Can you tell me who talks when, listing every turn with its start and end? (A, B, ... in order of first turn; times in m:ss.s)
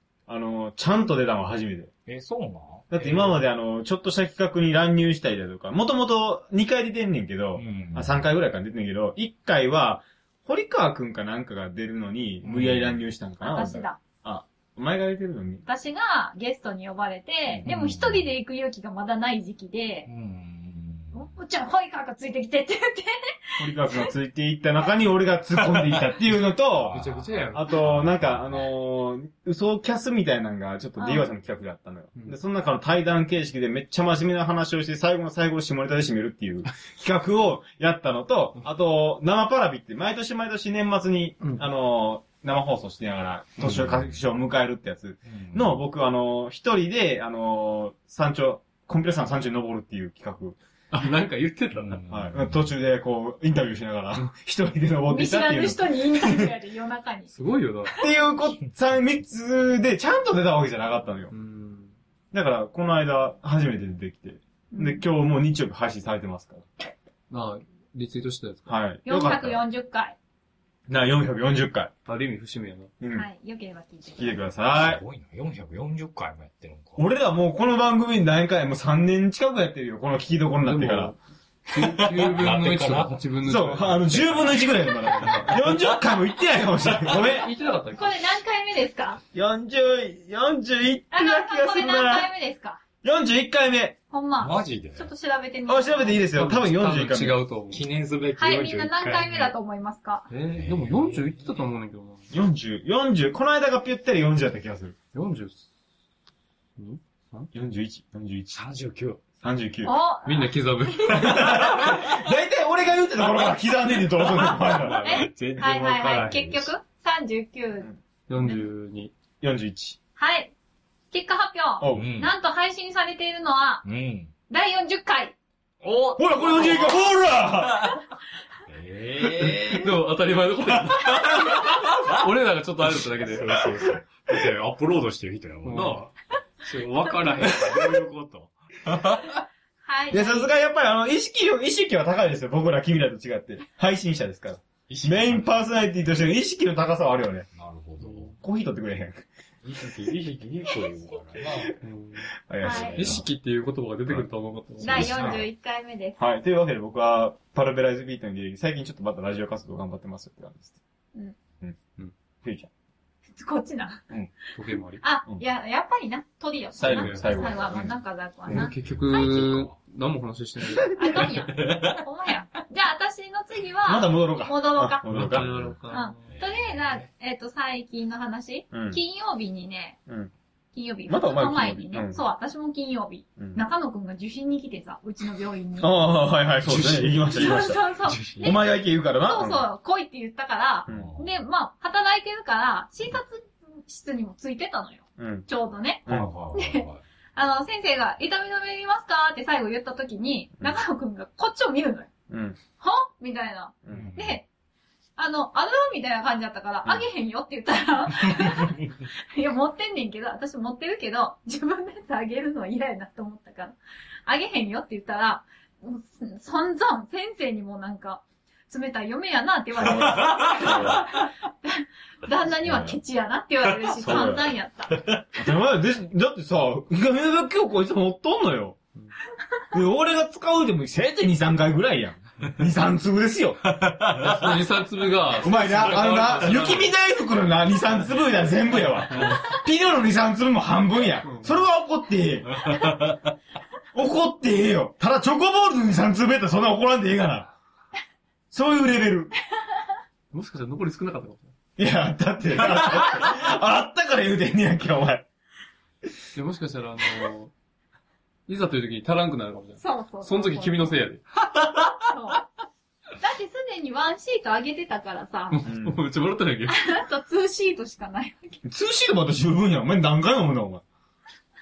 0:00.3-0:01.9 A
0:02.0-0:03.4 B
0:02.9-0:15.6 A
0:07.6-0:08.2 B
0:12.4-0:13.0 B
0:13.4-0:14.0 C
0:15.6-0:20.1 C
0:17.6-0:18.3 B
0:20.0-0:21.4 B
0:21.1-0:24.1 C
0:23.6-0:27.0 A
0:26.7-0:28.7 B
0:26.9-0:27.7 D
0:27.5-0:50.6 A
0:31.0-0:31.3 C
0:43.6-0:44.2 B
0:45.2-0:45.8 B
0:50.9-0:52.0 D
0:51.7-0:52.7 B
0:52.1-0:56.5 A
0:55.1-0:57.3 C
0:57.3-0:57.9 D
0:58.0-1:01.3 A
1:01.3-1:01.9 D
1:02.3-1:06.7 A
1:04.7-1:05.0 C
1:07.3-1:08.7 D
1:08.7-1:09.6 A
1:09.0-1:10.2 C
1:10.9-1:11.9 A
1:12.0-1:12.9 D
1:13.0-1:13.3 A
1:13.1-1:14.4 C
1:14.1-1:15.0 A
1:14.7-1:17.0 B
1:17.0-1:21.1 A
1:20.6-1:21.2 D
1:21.7-1:25.6 D
1:21.9-1:23.2 B
1:23.4-1:27.5 A
1:25.2-1:26.0 B
1:27.0-1:28.2 D
1:27.9-1:29.2 C
1:29.3-1:32.3 A
1:31.1-1:32.8 C
1:33.0-1:34.0 A
1:34.1-1:36.3 C
1:34.4-1:35.1 B
1:35.7-1:37.4 A
1:36.3-1:37.8 D
1:37.7-1:39.5 B
1:38.4-1:40.3 C
1:40.3-1:42.3 D
1:40.5-1:41.6 B
1:42.3-1:44.9 A
1:45.1-1:45.7 D
1:46.8-1:47.5 D
1:47.5-1:48.6 A
1:48.5-1:49.2 B
1:49.4-1:49.9 A
1:49.8-1:51.7 C
1:50.2-1:51.5 D
1:51.1-1:55.1 A
1:54.2-1:56.7 B
1:55.0-1:58.7 C
1:58.3-1:59.1 D
1:59.4-2:00.0 A
2:00.2-2:00.5 C
2:01.1-2:03.8 C
2:01.8-2:02.1 A
2:01.9-2:02.3 B
2:03.8-2:04.3 B
2:04.5-2:05.3 C
2:05.8-2:08.0 B
2:06.2-2:08.0 A
2:08.7-2:10.0 B
2:09.2-2:13.8 D
2:11.0-2:12.2 B
2:13.0-2:19.4 B
2:15.6-2:16.0 D
2:19.8-2:20.5 C
2:20.1-2:27.5 A
2:24.9-2:25.7 B
2:27.5-2:28.4 B
2:28.0-2:28.3 D
2:28.4-2:29.2 A
2:29.6-2:31.7 B
2:31.8-2:32.3 D
2:32.4-2:33.2 A
2:32.6-2:33.0 C
2:32.6-2:33.3 B
2:32.9-2:35.2 D
2:34.8-2:35.4 B
2:34.8-2:36.2 C
2:34.9-2:35.4 A
2:36.2-2:40.8 A
2:42.4-2:42.7 A
2:43.3-2:44.0 C
2:44.5-2:45.0 D
2:45.0-2:49.5 C
2:46.7-2:47.9 A
2:46.8-2:47.4 D
2:48.5-2:51.2 D
2:48.6-2:49.7 B
2:50.9-2:55.1 C
2:51.1-2:52.0 B
2:53.8-2:55.7 A
2:55.0-2:57.1 B
2:55.1-2:56.3 D
2:55.9-3:00.0 C
2:58.7-2:59.0 A
3:00.1-3:00.3 A
3:00.7-3:05.9 C
3:01.1-3:02.2 A
3:03.4-3:03.6 A
3:05.8-3:07.8 A
3:06.6-3:08.6 B
3:07.3-3:22.1 C
3:08.4-3:09.6 A
3:10.9-3:11.1 A
3:10.9-3:11.4 B
3:15.2-3:15.5 A
3:16.0-3:16.3 A
3:16.1-3:17.0 B
3:22.3-3:22.6 A
3:22.8-3:24.4 C
3:23.8-3:24.1 A
3:23.9-3:24.4 B
3:25.2-3:45.2 C
3:28.2-3:28.8 B
3:39.8-3:41.0 A
3:39.9-3:40.7 B
3:42.6-3:43.0 A
3:44.0-3:44.5 A
3:45.3-3:48.8 A
3:49.7-3:53.6 A
3:53.7-3:54.6 B
3:54.2-3:56.9 D
3:55.4-4:02.9 A
3:59.0-3:59.4 D
4:01.2-4:01.6 D
4:02.5-4:03.3 B
4:03.9-4:07.5 A
4:08.5-4:09.3 A
4:10.3-4:11.5 D
4:11.8-4:15.2 A
4:16.3-4:17.5 D
4:18.5-4:21.2 D
4:19.8-4:21.0 C
4:21.4-4:22.1 B
4:22.1-4:22.5 C
4:23.2-4:25.7 C
4:25.5-4:26.9 D
4:25.6-4:26.0 A
4:26.7-4:28.6 C
4:28.6-4:30.8 A